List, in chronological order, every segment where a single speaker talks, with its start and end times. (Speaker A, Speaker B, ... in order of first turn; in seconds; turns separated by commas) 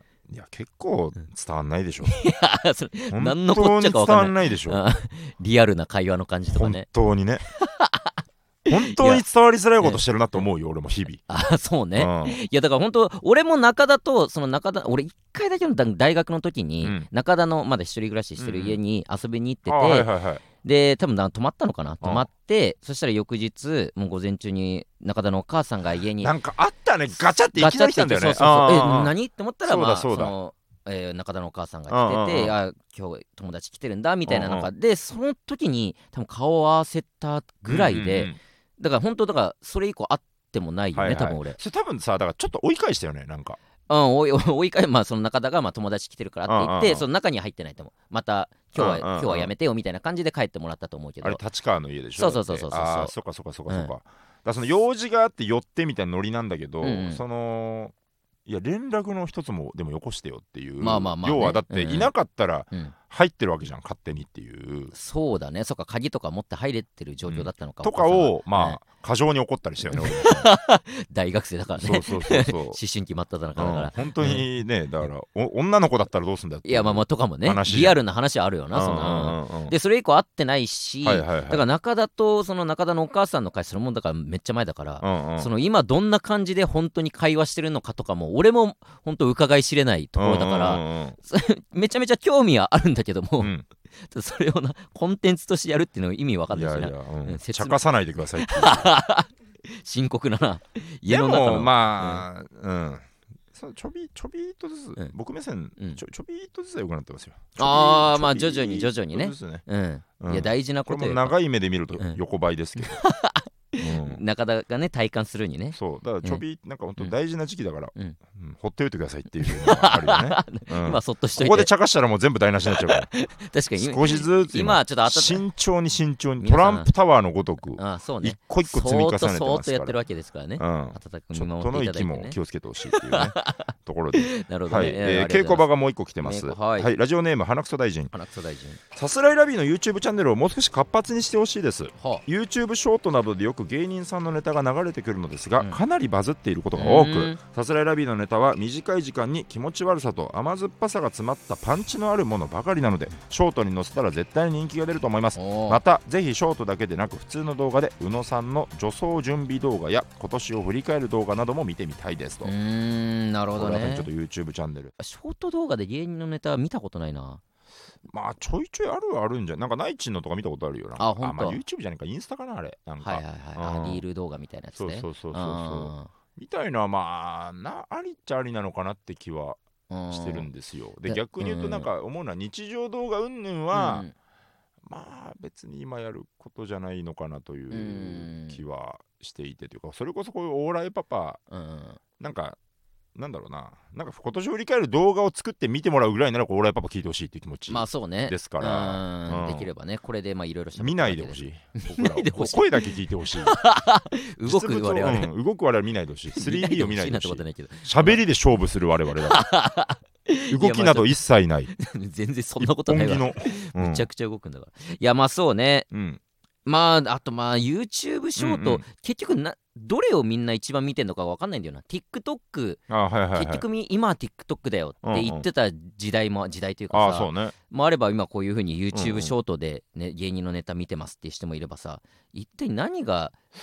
Speaker A: 0.3-2.2, Speaker B: 2.1-6.9, Speaker A: 3.1-4.8, Speaker A: 6.5-7.5, Speaker B: 7.5-9.2, Speaker A: 8.7-11.2, Speaker B: 11.3-20.1, Speaker A: 12.0-12.4, Speaker A: 18.4-18.8, Speaker A: 19.7-20.4, Speaker B: 20.6-26.3, Speaker A: 22.0-22.3, Speaker A: 26.2-30.3, Speaker B: 27.5-41.6, Speaker A: 31.9-32.5, Speaker A: 34.3-34.7, Speaker A: 37.7-38.4, Speaker A: 41.0-43.6, Speaker B: 43.9-51.4, Speaker A: 46.5-47.1, Speaker A: 48.8-49.5, Speaker A: 51.2-57.9, Speaker B: 52.2-53.1, Speaker B: 56.8-57.2, Speaker A: 58.5-64.9, Speaker B: 60.8-62.1, Speaker B: 64.9-68.8, Speaker A: 67.3-70.5, Speaker B: 69.9-74.5, Speaker A: 71.8-72.8, Speaker A: 73.6-78.0, Speaker B: 76.7-102.3, Speaker A: 78.7-79.7, Speaker A: 81.0-81.6, Speaker A: 85.0-85.5, Speaker A: 90.2-91.2, Speaker A: 93.4-93.7, Speaker A: 96.5-99.0, Speaker A: 101.1-109.6, Speaker B: 107.6-111.4, Speaker A: 110.2-113.0, Speaker B: 112.8-116.4, Speaker A: 113.8-114.2, Speaker A: 115.8-123.1, Speaker B: 119.4-121.7, Speaker B: 122.7-125.5, Speaker A: 123.8-130.0, Speaker B: 126.4-126.9, Speaker B: 127.8-132.4, Speaker A: 130.6-138.1, Speaker B: 132.9-135.7, Speaker B: 136.2-136.9, Speaker B: 138.1-138.8, Speaker A: 138.9-162.5, Speaker B: 142.0-142.2, Speaker B: 146.8-147.4, Speaker B: 155.4-155.8, Speaker B: 162.4-164.1, Speaker A: 163.5-164.9, Speaker B: 165.0-167.4, Speaker A: 168.1-174.0, Speaker B: 171.0-171.6, Speaker B: 173.0-176.1, Speaker A: 174.8-179.6, Speaker B: 179.9-180.5, Speaker A: 180.1-184.1, Speaker B: 181.1-181.9, Speaker B: 183.7-184.1, Speaker A: 184.8-191.4, Speaker B: 187.7-188.6, Speaker B: 191.5-192.0, Speaker A: 192.2-192.6, Speaker A: 193.2-199.7, Speaker B: 197.7-202.8, Speaker A: 200.8-203.6, Speaker B: 203.4-205.3, Speaker A: 204.4-209.4, Speaker B: 206.4-208.2, Speaker B: 209.3-211.2, Speaker A: 210.5-211.7, Speaker B: 211.7-215.9, Speaker A: 212.6-214.1, Speaker A: 215.9-216.2, Speaker B: 216.7-222.8, Speaker A: 218.4-218.8, Speaker A: 222.9-223.6, Speaker B: 223.3-233.3, Speaker A: 225.0-225.4, Speaker A: 226.9-227.5, Speaker A: 228.9-229.3